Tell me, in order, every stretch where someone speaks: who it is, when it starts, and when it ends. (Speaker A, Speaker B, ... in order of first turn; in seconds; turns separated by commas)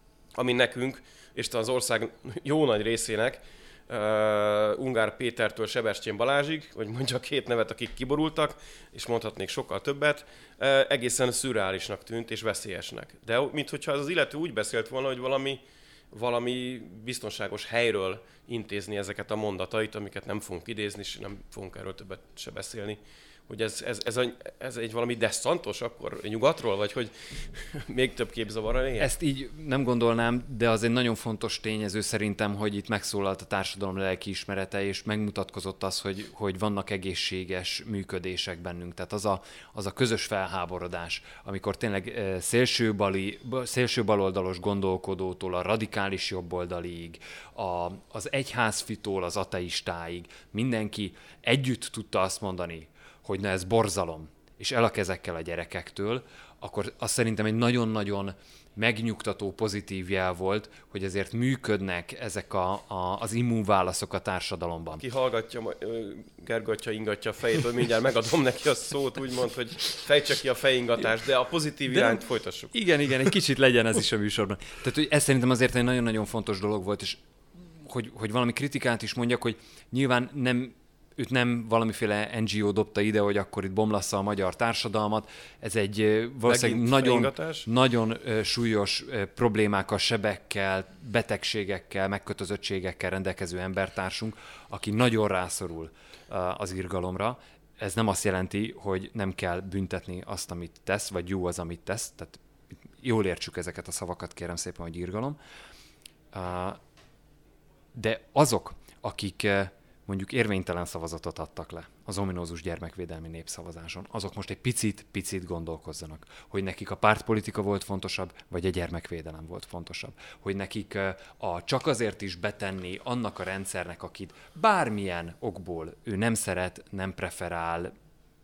Speaker A: 0.3-29.1, Speaker B: 29.0-65.0, Speaker A: 65.0-72.7, Speaker B: 71.9-77.2, Speaker B: 77.8-102.4, Speaker A: 86.5-87.7, Speaker B: 103.0-105.4, Speaker B: 106.3-106.8, Speaker B: 107.9-127.9